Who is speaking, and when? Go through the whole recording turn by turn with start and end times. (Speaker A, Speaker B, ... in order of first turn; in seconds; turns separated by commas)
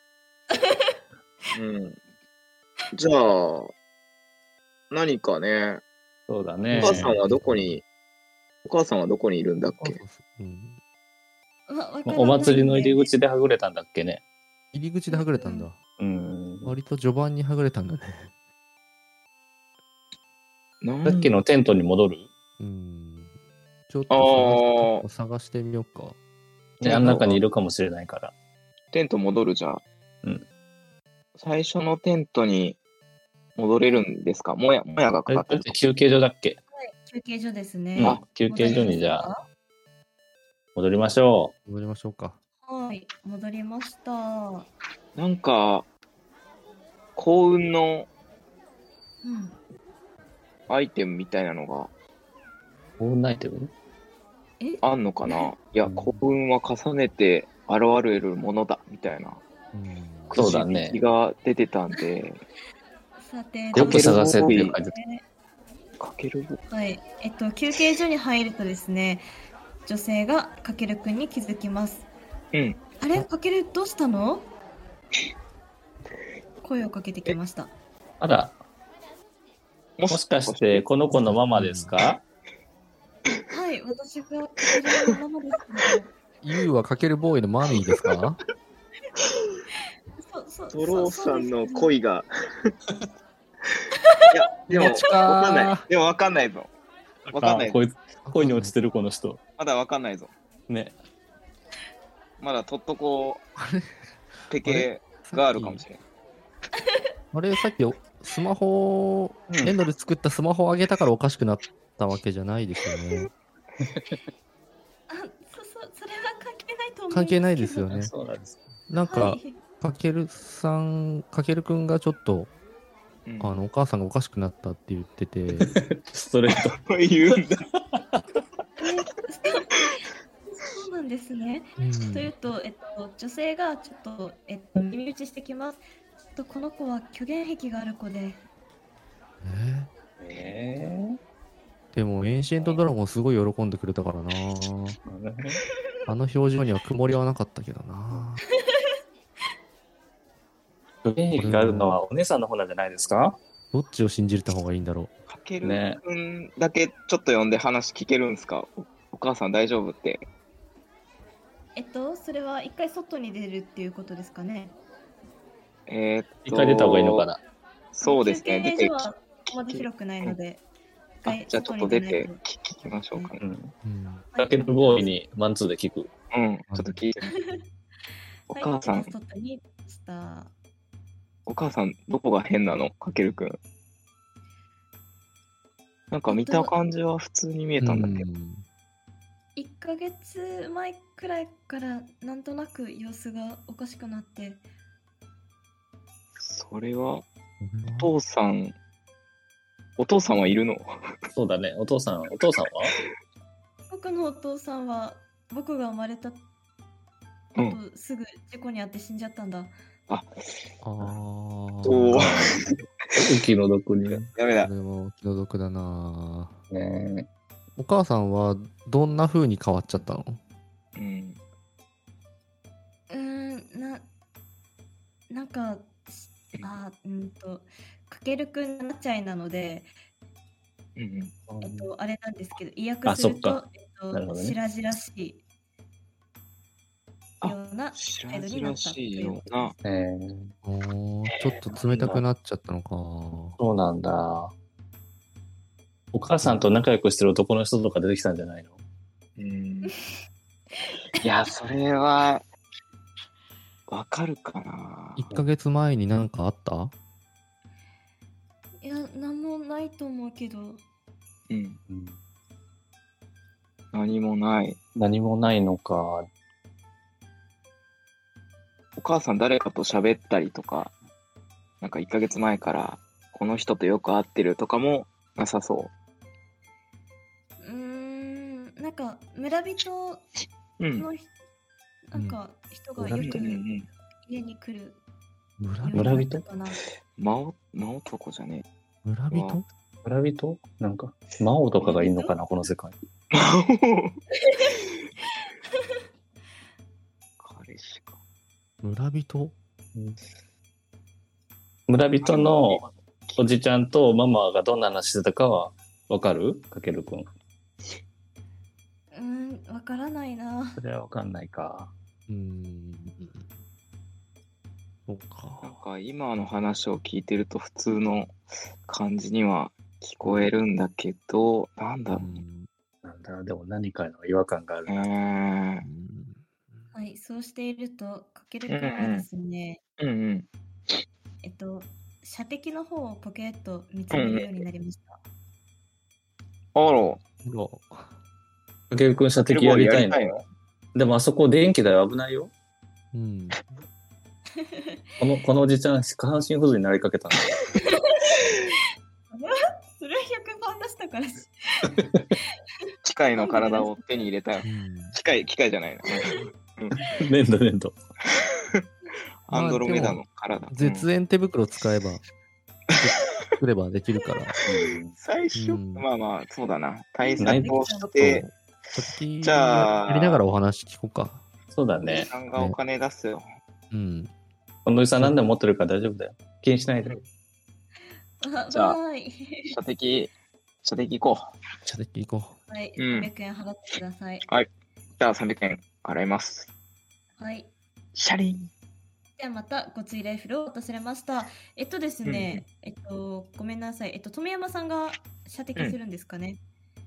Speaker A: 0.5-0.9, Speaker B: 1.5-2.0, Speaker B: 2.9-3.7, Speaker B: 4.9-5.8, Speaker C: 6.3-7.2, Speaker D: 6.7-7.8, Speaker B: 6.8-7.8, Speaker B: 8.6-10.0, Speaker D: 9.8-10.8, Speaker A: 11.7-13.1, Speaker C: 12.1-14.2, Speaker D: 14.7-15.8, Speaker A: 15.1-15.7, Speaker C: 16.0-16.7, Speaker D: 16.6-18.3, Speaker B: 20.8-21.3, Speaker C: 21.0-22.3, Speaker D: 22.6-23.3, Speaker D: 23.9-26.1, Speaker B: 24.1-25.0, Speaker C: 26.8-28.3, Speaker D: 26.8-27.4, Speaker B: 28.9-29.8, Speaker B: 31.4-32.8, Speaker B: 33.5-35.8, Speaker C: 35.3-36.6, Speaker A: 36.7-39.4, Speaker C: 38.0-39.3, Speaker B: 38.0-38.9, Speaker C: 40.7-41.5, Speaker D: 41.6-42.4, Speaker A: 42.6-44.7, Speaker B: 45.1-45.9, Speaker B: 47.1-48.1, Speaker A: 49.2-49.5, Speaker B: 50.7-51.9, Speaker C: 53.0-53.7, Speaker A: 54.6-55.5, Speaker B: 54.8-59.4, Speaker C: 55.8-56.2, Speaker D: 59.7-60.3, Speaker B: 60.3-62.4, Speaker C: 60.3-61.0, Speaker A: 63.2-64.2, Speaker B: 63.7-64.7, Speaker C: 63.7-64.9, Speaker A: 64.7-65.2, Speaker B: 66.0-66.6, Speaker A: 66.7-69.3, Speaker A: 69.8-72.0, Speaker B: 72.5-72.8, Speaker A: 73.0-74.5, Speaker A: 76.6-77.7, Speaker C: 78.2-78.5, Speaker B: 80.0-80.9, Speaker C: 80.1-82.2, Speaker D: 81.1-81.9, Speaker A: 83.5-86.1, Speaker D: 86.4-88.4, Speaker B: 89.2-89.6, Speaker A: 90.2-91.9, Speaker B: 90.7-92.7, Speaker A: 94.0-94.3, Speaker B: 94.3-96.7, Speaker D: 94.7-95.8, Speaker C: 97.2-99.4, Speaker B: 97.3-97.8, Speaker D: 98.2-98.7, Speaker B: 99.6-100.3, Speaker C: 100.7-101.0, Speaker B: 102.4-103.4, Speaker D: 103.6-105.8, Speaker B: 104.5-106.0, Speaker A: 106.8-107.0, Speaker D: 107.3-113.3, Speaker C: 109.5-109.8, Speaker C: 113.8-114.2, Speaker A: 115.1-118.0, Speaker D: 117.1-118.1, Speaker C: 117.9-118.6, Speaker D: 118.9-122.5, Speaker A: 119.0-119.6, Speaker B: 123.2-123.6, Speaker D: 123.4-125.7, Speaker C: 125.6-126.8, Speaker B: 126.5-127.7, Speaker C: 127.7-128.2, Speaker A: 128.8-129.9, Speaker A: 130.5-135.8, Speaker D: 131.8-132.3, Speaker A: 136.3-138.4, Speaker D: 139.4-139.9, Speaker C: 140.2-141.2, Speaker D: 141.9-145.0, Speaker C: 145.1-145.6, Speaker D: 146.1-148.4, Speaker C: 151.0-153.4, Speaker D: 151.3-151.9, Speaker D: 153.7-155.1, Speaker B: 155.3-160.2, Speaker C: 155.6-156.0, Speaker A: 161.7-164.7, Speaker B: 165.9-167.2, Speaker C: 166.4-167.4, Speaker B: 167.9-169.1, Speaker A: 168.0-170.6, Speaker B: 169.7-170.4, Speaker A: 171.2-172.4, Speaker B: 171.3-173.4, Speaker C: 173.4-173.7, Speaker D: 173.8-174.3, Speaker A: 174.3-175.1, Speaker C: 174.3-176.1, Speaker B: 176.3-177.3, Speaker D: 176.7-176.9, Speaker A: 177.4-177.6, Speaker B: 178.5-179.1, Speaker A: 178.5-180.5, Speaker B: 181.4-183.6, Speaker B: 186.1-188.3, Speaker A: 186.3-186.7, Speaker D: 187.8-188.6, Speaker A: 189.6-194.6, Speaker B: 196.4-197.2, Speaker D: 197.6-198.1, Speaker B: 198.0-198.8, Speaker B: 200.0-201.1, Speaker C: 201.3-202.9, Speaker A: 203.9-206.4, Speaker A: 207.6-209.7, Speaker D: 210.8-212.3, Speaker B: 211.8-213.3, Speaker C: 212.1-214.3, Speaker B: 214.1-214.7, Speaker D: 214.6-216.6, Speaker C: 216.7-217.3, Speaker D: 217.8-220.4, Speaker B: 220.9-221.4, Speaker A: 223.1-224.1, Speaker A: 225.3-229.9, Speaker B: 230.9-231.3, Speaker D: 231.5-231.9, Speaker A: 231.6-235.4, Speaker C: 233.0-234.6, Speaker B: 237.4-239.7, Speaker A: 237.4-239.8, Speaker C: 239.8-240.5, Speaker D: 240.6-243.6, Speaker C: 241.9-242.2, Speaker C: 243.6-244.5, Speaker C: 246.1-248.7, Speaker B: 249.4-249.9, Speaker B: 251.2-252.4, Speaker B: 253.9-255.2, Speaker D: 255.2-256.9, Speaker A: 258.8-260.8, Speaker B: 261.5-261.8, Speaker C: 261.9-262.2, Speaker B: 263.9-264.8, Speaker C: 264.9-266.3, Speaker B: 269.0-270.9, Speaker B: 271.8-275.9, Speaker A: 277.6-280.2, Speaker B: 280.8-281.1, Speaker A: 280.9-281.3, Speaker A: 282.1-283.6, Speaker C: 283.0-283.4, Speaker B: 283.2-283.9, Speaker A: 284.2-285.0, Speaker D: 285.6-286.2, Speaker A: 285.8-286.8, Speaker C: 285.9-286.4, Speaker B: 287.2-288.6, Speaker D: 289.0-289.6, Speaker B: 289.3-289.6, Speaker C: 290.0-293.0, Speaker A: 291.8-292.3, Speaker B: 293.3-294.2, Speaker A: 294.5-294.8, Speaker B: 297.4-298.2, Speaker D: 298.8-299.5, Speaker C: 301.9-307.3, Speaker B: 302.2-303.4, Speaker A: 309.1-310.8, Speaker C: 310.8-311.9, Speaker D: 312.3-313.5, Speaker D: 315.1-315.8, Speaker B: 315.6-322.4, Speaker D: 322.1-322.7, Speaker C: 323.0-325.1, Speaker B: 324.9-325.9, Speaker D: 325.8-326.9, Speaker A: 326.9-329.8, Speaker B: 328.7-329.3, Speaker B: 330.0-331.0, Speaker A: 331.4-335.2, Speaker B: 334.1-334.6, Speaker B: 336.7-337.2, Speaker D: 337.4-338.1, Speaker C: 338.9-340.2, Speaker B: 339.4-340.4, Speaker C: 340.9-342.5, Speaker D: 343.1-343.6, Speaker A: 344.6-345.0, Speaker C: 345.2-347.7, Speaker A: 347.8-348.4, Speaker A: 349.3-352.0, Speaker B: 353.0-357.1, Speaker A: 353.3-354.3, Speaker D: 354.6-355.1, Speaker C: 357.1-357.9, Speaker B: 358.3-358.8, Speaker B: 359.4-361.1, Speaker D: 359.5-362.2, Speaker B: 362.9-363.2, Speaker D: 362.9-364.6, Speaker B: 364.6-368.4, Speaker C: 364.6-365.1, Speaker D: 365.6-366.1, Speaker A: 367.2-368.1, Speaker C: 367.4-367.9, Speaker D: 368.1-371.4, Speaker B: 369.4-370.4, Speaker C: 371.7-372.3, Speaker B: 372.0-373.4, Speaker D: 373.9-374.3, Speaker C: 374.8-377.2, Speaker A: 378.4-379.8, Speaker B: 378.7-379.0, Speaker B: 379.7-380.3, Speaker B: 380.8-381.5, Speaker D: 381.8-382.6, Speaker A: 382.7-384.4, Speaker B: 383.0-383.3, Speaker B: 384.5-386.7, Speaker A: 387.4-387.7, Speaker B: 388.1-388.7, Speaker A: 389.4-396.6, Speaker B: 392.2-392.6